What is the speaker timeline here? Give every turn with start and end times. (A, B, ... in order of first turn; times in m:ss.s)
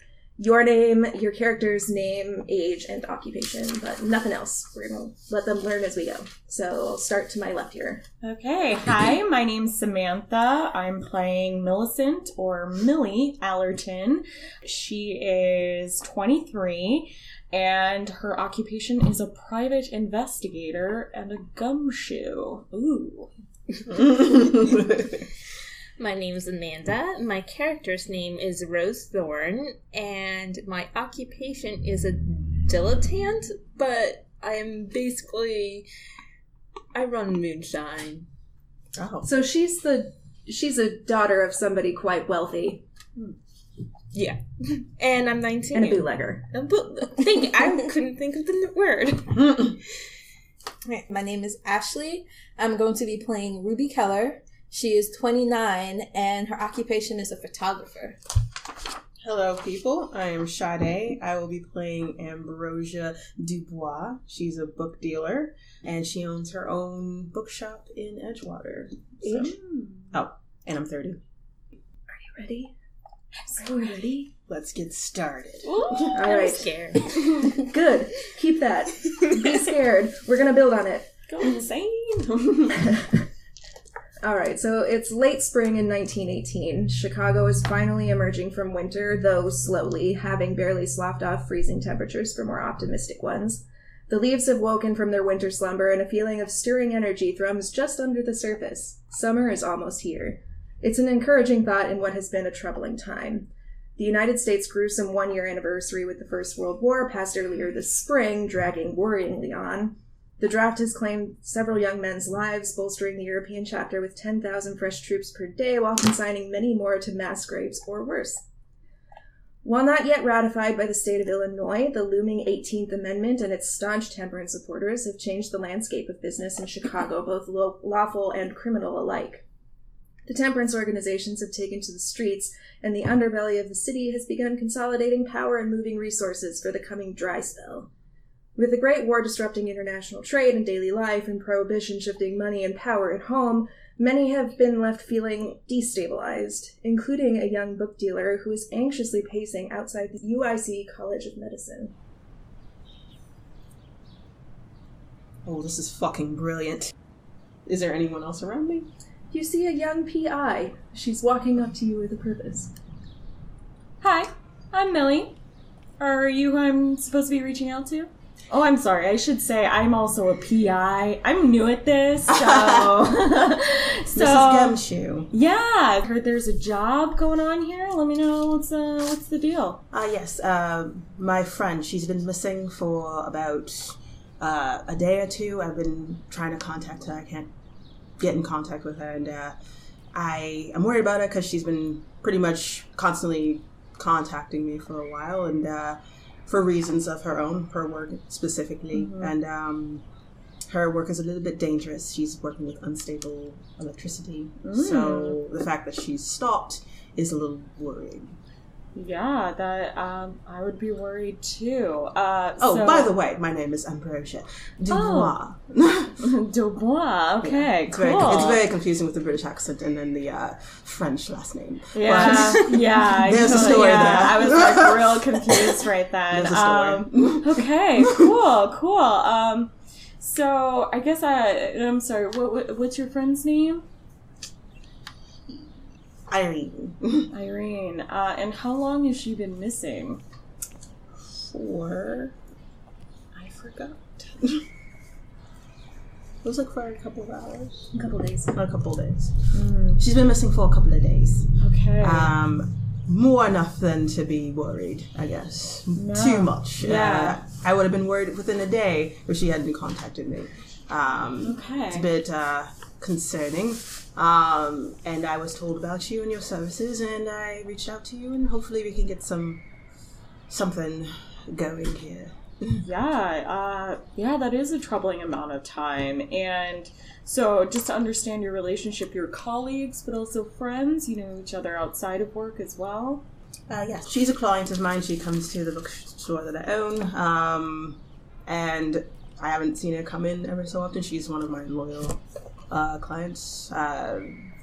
0:00.4-0:08.0 A
0:08.2-0:23.3 B
0:23.9-0:25.2 C
0:26.0-0:35.9 D
0:36.9-0:38.3 D
0:39.0-0:39.3 C
0:39.2-0:42.8 A
0:44.1-0:49.6 D
0:45.7-0:46.5 A
0:49.4-0:49.7 C
0:50.9-0:58.2 E
0:59.2-1:09.5 C
1:09.2-1:09.5 A
1:09.3-1:10.1 B
1:10.1-1:11.2 C
1:12.1-1:12.7 A
1:13.5-1:14.3 A
1:14.5-1:16.1 C
1:15.7-1:16.1 B
1:15.8-1:17.5 D
1:16.1-1:21.1 A
1:21.3-1:22.9 B
1:24.2-1:58.4 A
1:59.6-2:09.4 A
2:10.2-2:17.9 A
2:18.6-2:31.9 A
2:35.4-2:36.9 C
2:37.6-2:38.9 C
2:39.3-2:42.7 A
2:44.0-2:45.4 B
2:46.0-2:54.8 B
2:52.3-2:53.1 C
2:54.1-2:55.3 C
2:55.3-2:59.8 B
2:59.9-3:07.5 C
3:08.2-3:09.6 C
3:10.1-3:20.0 C
3:18.9-3:19.3 B
3:20.7-3:28.4 C
3:24.6-3:25.4 B
3:28.9-3:33.1 B
3:32.6-3:36.3 C
3:34.9-3:35.3 B
3:36.2-3:38.6 B
3:37.4-3:45.7 C
3:41.9-3:53.8 B
3:46.3-3:48.3 C
3:56.3-3:57.3 C
3:57.3-4:00.2 B
4:01.3-4:02.3 C
4:03.4-4:04.0 B
4:06.4-4:07.9 C
4:07.9-4:08.6 A
4:08.5-4:29.6 C
4:09.5-4:10.0 B
4:11.6-4:12.3 B
4:15.9-4:17.4 B
4:21.4-4:22.1 B
4:30.5-4:32.8 C
4:32.8-4:43.2 B
4:43.7-4:54.5 C